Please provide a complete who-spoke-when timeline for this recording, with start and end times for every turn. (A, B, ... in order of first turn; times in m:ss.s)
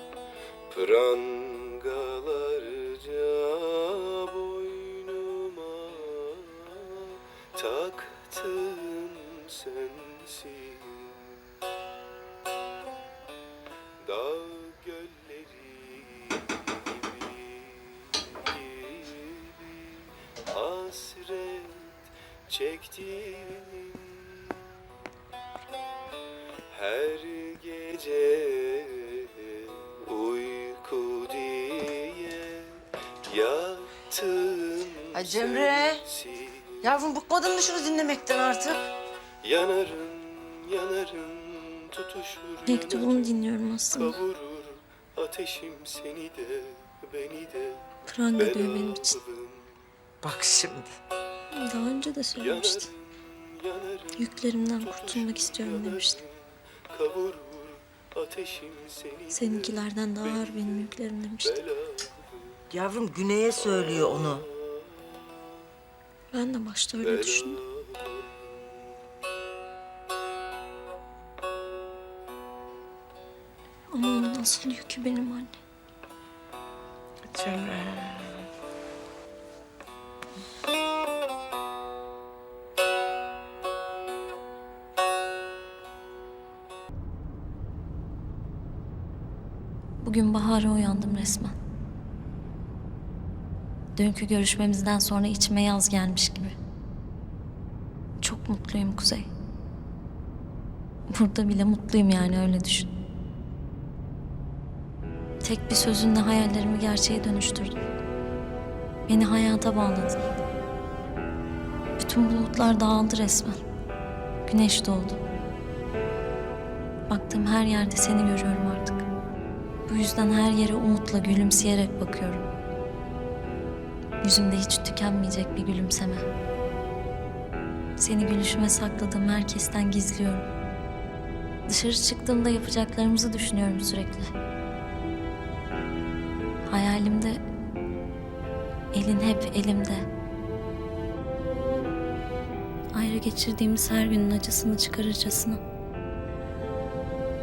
0:00.7-0:11.4 A
0:14.0-0:24.6 A
0:26.7-0:36.9 A
0:35.1-0:36.0 B
0:36.8-0:38.8 B
0:39.4-0:43.3 A
0:42.6-0:44.2 C
0:44.0-0:47.8 A
0:48.1-0:49.2 C
0:48.4-0:49.7 A
0:50.2-0:50.9 B
0:51.5-0:52.9 C
0:52.4-0:52.9 A
0:53.6-0:54.1 A
0:54.2-0:56.2 C
0:54.8-0:56.4 A
0:56.9-0:59.6 A
0:59.3-1:01.6 C
1:00.4-1:00.9 A
1:01.6-1:02.1 A
1:02.7-1:04.5 B
1:03.8-1:04.5 A
1:06.3-1:07.6 C
1:07.0-1:08.2 A
1:13.9-1:15.6 C
1:17.3-1:18.2 B
1:30.0-1:31.6 C
1:34.0-1:36.6 C
1:38.2-1:39.3 C
1:41.1-1:42.9 C
1:45.4-1:47.8 C
1:49.1-1:50.2 C
1:52.0-1:53.6 C
1:54.5-1:55.2 C
1:57.1-1:59.0 C
1:59.9-2:02.5 C
2:04.2-2:06.3 C
2:08.0-2:10.5 C
2:11.7-2:14.3 C
2:16.7-2:17.4 C
2:18.9-2:20.0 C
2:23.0-2:25.6 C